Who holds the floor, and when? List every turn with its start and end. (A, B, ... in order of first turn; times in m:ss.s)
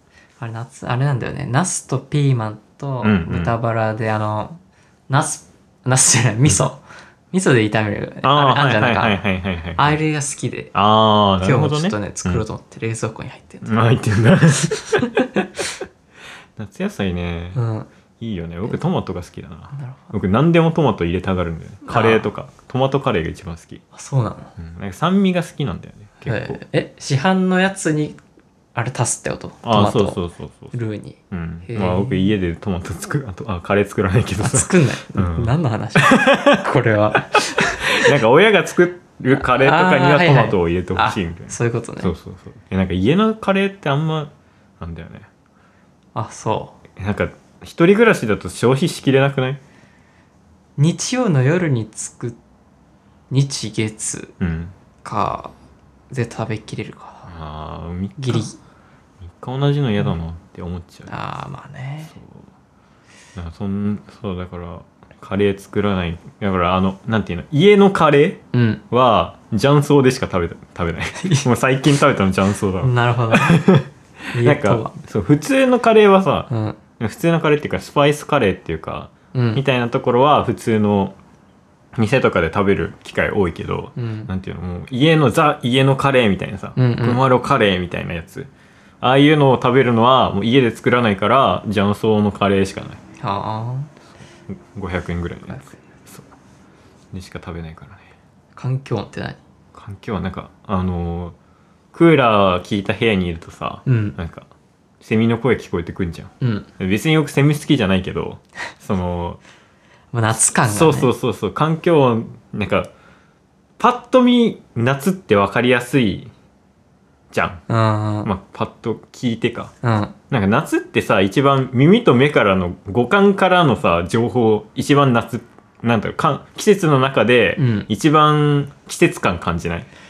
0:00.4-0:09.2 A
0:03.0-0:03.5 B
0:08.2-0:10.0 B
0:09.8-0:10.8 A
0:10.7-0:12.4 B
0:11.4-0:13.8 A
0:13.6-0:15.2 B
0:15.0-0:15.5 A
0:16.6-0:17.6 B
0:17.6-0:17.9 A
0:18.2-0:23.8 B
0:19.7-0:20.1 A
0:21.8-0:22.3 A
0:23.9-0:24.6 A
0:24.6-0:26.6 B
0:26.2-0:28.2 A
0:28.8-0:30.2 A
0:29.6-0:30.7 B
0:30.7-0:32.2 A
0:31.3-0:36.7 B
0:34.4-0:38.1 A
0:37.7-0:45.3 B
0:39.3-0:42.1 A
0:46.2-0:46.8 A
0:47.0-0:49.6 B
0:50.8-0:52.4 A
0:53.3-0:54.4 A
0:54.4-0:54.7 B
0:55.0-0:55.5 A
0:56.1-0:57.3 A
0:57.3-0:58.5 B
0:58.2-0:58.6 A
0:59.2-1:01.1 B
1:01.1-1:02.2 A
1:02.1-1:02.4 B
1:03.4-1:21.2 B
1:08.5-1:08.8 A
1:11.2-1:11.5 A
1:12.8-1:13.7 A
1:14.3-1:15.0 A
1:16.5-1:16.8 A
1:19.3-1:19.6 A
1:22.0-1:28.5 B
1:24.0-1:24.3 A
1:26.8-1:27.2 A
1:29.0-1:33.0 B
1:33.2-1:33.9 A
1:34.5-1:36.3 B
1:35.5-1:35.8 A
1:37.1-1:38.1 B
1:38.6-1:39.4 A
1:39.7-1:41.4 B
1:41.9-1:44.5 B
1:43.9-1:44.2 A
1:45.0-1:49.4 B
1:46.4-1:46.7 A
1:50.1-1:51.1 A
1:50.6-1:52.9 B
1:53.8-1:56.3 B
1:57.3-1:57.6 B
1:57.7-1:58.3 A
1:58.2-1:59.7 B
1:59.8-2:00.2 A
2:00.3-2:09.9 B
2:07.6-2:07.9 A